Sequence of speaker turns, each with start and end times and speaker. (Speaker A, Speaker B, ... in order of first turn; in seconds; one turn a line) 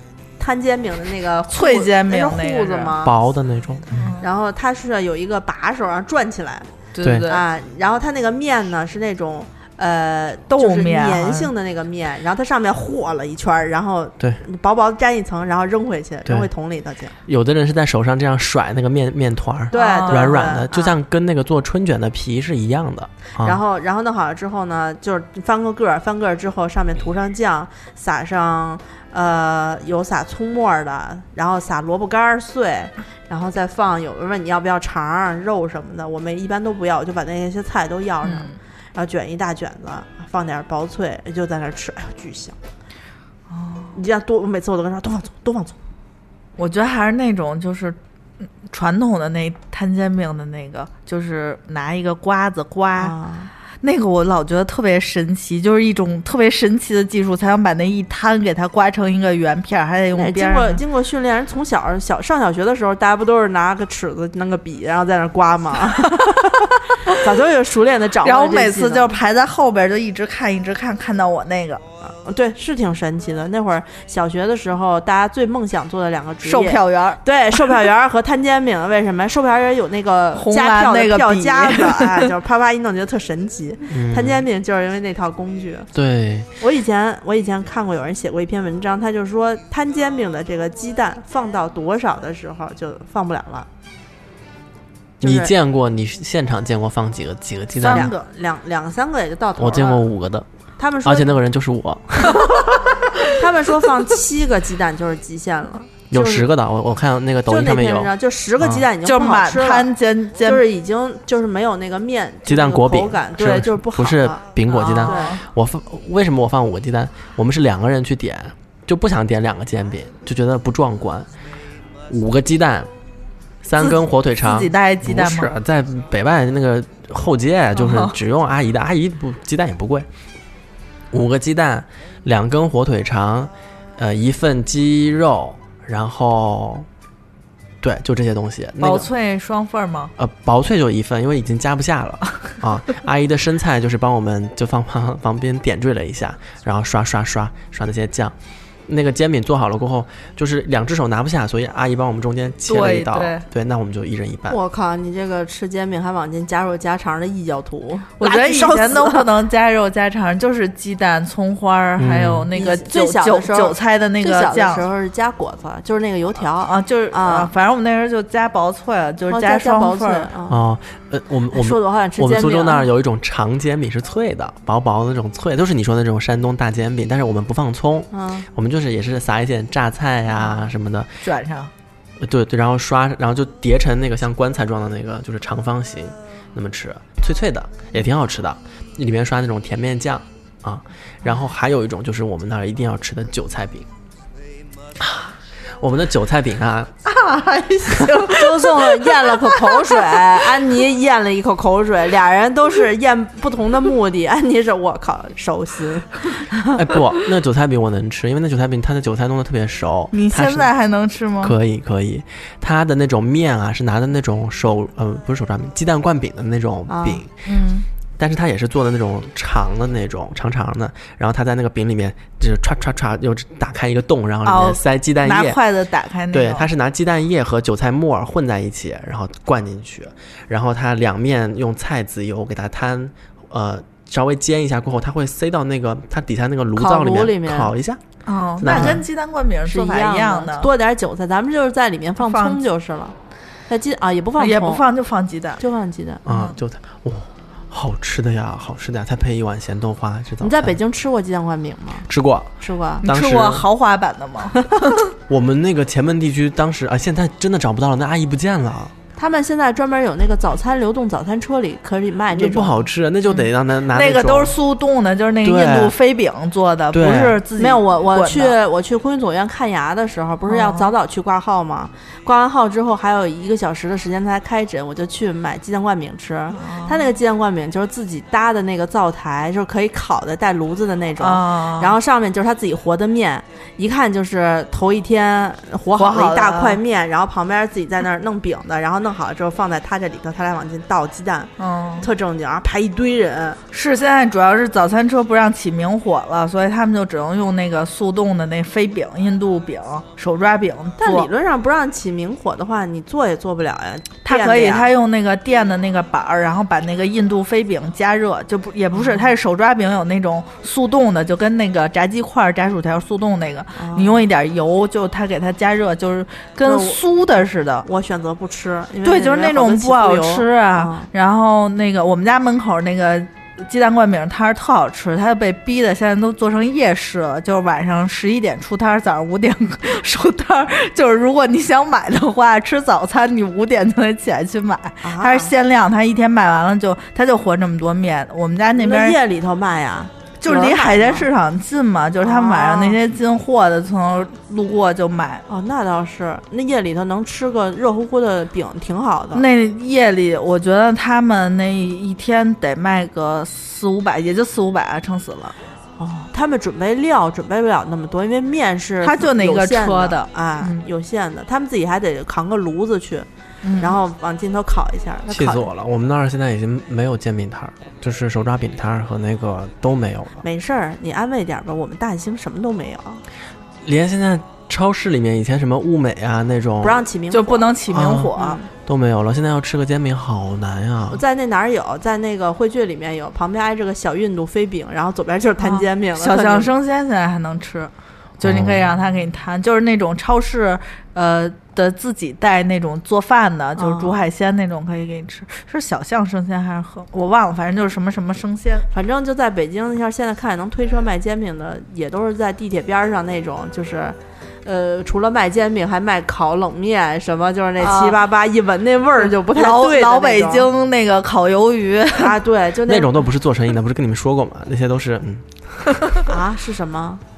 Speaker A: 0.4-3.1
Speaker B: 1.5-2.9
Speaker C: 3.0-4.1
Speaker B: 3.9-4.2
Speaker A: 4.2-6.7
Speaker B: 7.0-7.4
Speaker C: 7.0-7.3
Speaker A: 7.2-17.1
Speaker B: 10.5-11.5
Speaker C: 17.3-23.6
Speaker A: 19.7-21.0
Speaker B: 19.7-20.5
Speaker A: 23.4-42.6
Speaker B: 38.2-38.6
Speaker B: 43.5-43.9
Speaker A: 43.9-45.8
Speaker B: 46.6-48.0
Speaker B: 48.6-53.2
Speaker A: 53.0-53.5
Speaker B: 53.8-60.8
Speaker A: 60.1-69.1
Speaker B: 66.1-66.5
Speaker B: 68.2-71.8
Speaker A: 72.0-85.9
Speaker B: 76.4-77.8
Speaker B: 80.3-82.3
Speaker C: 83.9-84.4
Speaker C: 85.9-86.5
Speaker A: 86.6-93.7
Speaker A: 95.2-95.5
Speaker C: 95.2-98.1
Speaker B: 97.8-98.2
Speaker A: 97.8-100.1
Speaker C: 99.6-100.5
Speaker A: 100.8-101.4
Speaker C: 101.0-102.7
Speaker A: 103.3-106.5
Speaker C: 106.1-108.8
Speaker A: 107.5-114.4
Speaker B: 109.0-110.6
Speaker C: 112.5-121.3
Speaker B: 114.7-115.4
Speaker A: 114.9-115.4
Speaker C: 122.1-122.9
Speaker C: 123.6-130.1
Speaker B: 124.4-125.5
Speaker B: 127.8-128.1
Speaker C: 131.1-136.9
Speaker C: 137.8-139.1
Speaker B: 138.8-140.1
Speaker C: 140.2-148.3
Speaker C: 148.9-154.6
Speaker B: 152.7-153.5
Speaker A: 154.5-159.3
Speaker B: 158.2-164.9
Speaker C: 162.0-162.5
Speaker A: 162.5-167.5
Speaker B: 166.7-170.3
Speaker A: 169.3-170.6
Speaker C: 170.5-181.2
Speaker A: 171.5-172.9
Speaker A: 178.1-178.5
Speaker A: 180.4-180.7
Speaker B: 181.2-181.7
Speaker C: 182.2-193.9
Speaker C: 195.0-195.3
Speaker C: 195.8-196.9
Speaker B: 197.1-200.4
Speaker A: 198.3-206.7
Speaker C: 206.7-210.7
Speaker B: 210.1-211.6
Speaker C: 211.4-217.3
Speaker A: 216.9-217.2
Speaker B: 217.4-217.9
Speaker C: 218.2-225.6
Speaker B: 224.4-226.7
Speaker C: 226.3-238.0
Speaker A: 236.8-237.7
Speaker B: 238.3-240.7
Speaker C: 238.6-239.0
Speaker A: 238.7-239.0
Speaker A: 239.7-243.2
Speaker B: 242.2-242.6
Speaker A: 243.7-244.8
Speaker B: 244.4-245.6
Speaker A: 245.6-246.2
Speaker C: 246.3-250.8
Speaker B: 246.3-246.6
Speaker A: 250.4-252.1
Speaker C: 252.1-253.7
Speaker A: 252.6-253.1
Speaker B: 253.0-255.0
Speaker C: 255.3-258.9
Speaker A: 259.2-262.8
Speaker C: 262.3-264.6
Speaker B: 263.5-268.6
Speaker C: 265.4-266.0
Speaker C: 266.9-267.4
Speaker A: 267.6-293.6
Speaker B: 270.5-270.9
Speaker B: 276.6-277.0
Speaker B: 281.2-281.9
Speaker B: 286.0-286.8
Speaker B: 291.6-292.1
Speaker B: 293.7-301.3
Speaker A: 301.0-304.9
Speaker B: 304.2-317.9
Speaker A: 309.0-309.3
Speaker A: 313.8-314.2
Speaker A: 316.6-317.0
Speaker A: 317.9-321.1
Speaker B: 319.0-339.2
Speaker A: 335.0-335.5
Speaker A: 338.8-341.3
Speaker B: 340.4-345.4
Speaker A: 342.2-343.0
Speaker A: 345.5-349.4
Speaker B: 349.4-355.6
Speaker A: 356.0-365.7
Speaker B: 359.0-360.9
Speaker B: 363.6-364.0
Speaker C: 365.3-370.4
Speaker A: 370.4-373.2
Speaker C: 373.8-377.0
Speaker A: 376.8-377.7
Speaker B: 377.3-378.6
Speaker C: 377.9-381.2
Speaker A: 378.4-378.7
Speaker A: 381.1-386.7
Speaker B: 385.6-398.9
Speaker C: 388.4-388.9
Speaker A: 393.8-394.2
Speaker A: 398.9-410.7
Speaker B: 407.8-408.2
Speaker B: 409.2-412.4
Speaker A: 412.1-413.1
Speaker C: 412.9-416.0
Speaker A: 416.3-417.2